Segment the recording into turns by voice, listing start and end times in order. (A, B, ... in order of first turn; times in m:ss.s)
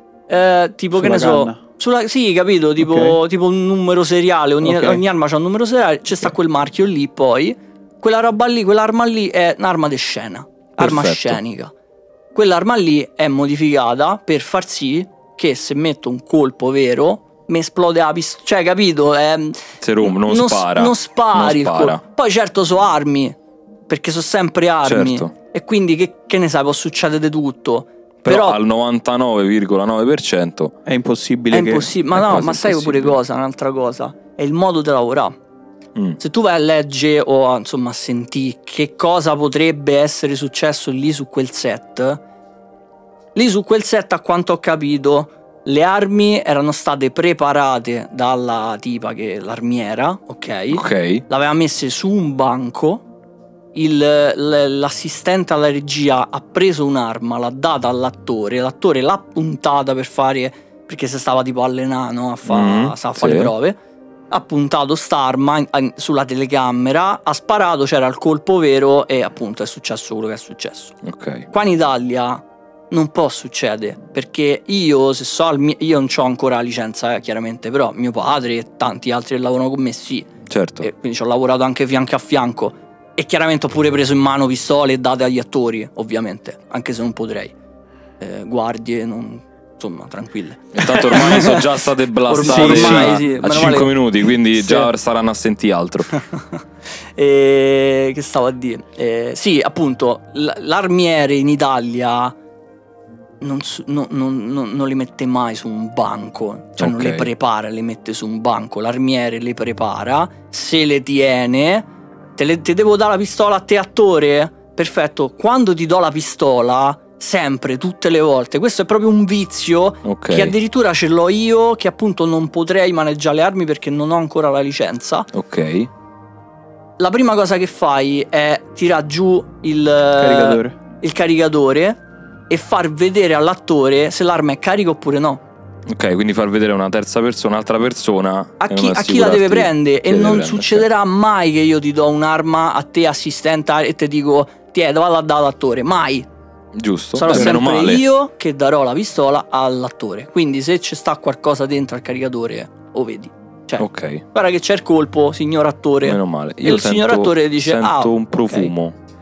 0:00.3-0:11.7 A
0:01.0-0:01.6 B
0:02.8-0:03.2 B
0:04.6-0:05.0 B
0:10.8-0:11.4 C
0:12.3-0:23.4 A
0:19.8-0:22.0 C
0:23.9-0:28.6 A
0:24.8-0:25.3 C
0:28.2-0:30.8 C
0:30.9-0:31.9 B
0:31.5-0:35.3 A
0:32.1-0:33.2 C
0:36.2-0:42.2 A
0:43.4-0:53.0 A
0:50.7-0:51.2 C
0:53.7-1:03.8 A
1:02.5-1:03.5 C
1:04.3-1:11.0 A
1:11.0-1:11.5 C
1:11.5-1:20.3 A
1:20.5-1:20.9 C
1:20.8-1:27.6 A
1:28.2-1:31.7 A
1:30.8-1:36.2 C
1:32.3-1:34.9 A
1:32.4-1:33.2 B
1:37.2-1:42.4 A
1:43.4-2:05.3 A
1:46.8-1:47.3 C
2:00.0-2:00.5 C
2:05.3-2:05.9 C
2:07.0-2:15.4 A
2:10.2-2:10.8 B
2:15.9-2:20.9 C
2:18.6-2:26.3 A
2:26.8-2:28.0 C
2:27.2-2:38.7 A
2:33.8-2:34.2 C
2:36.0-2:39.0 C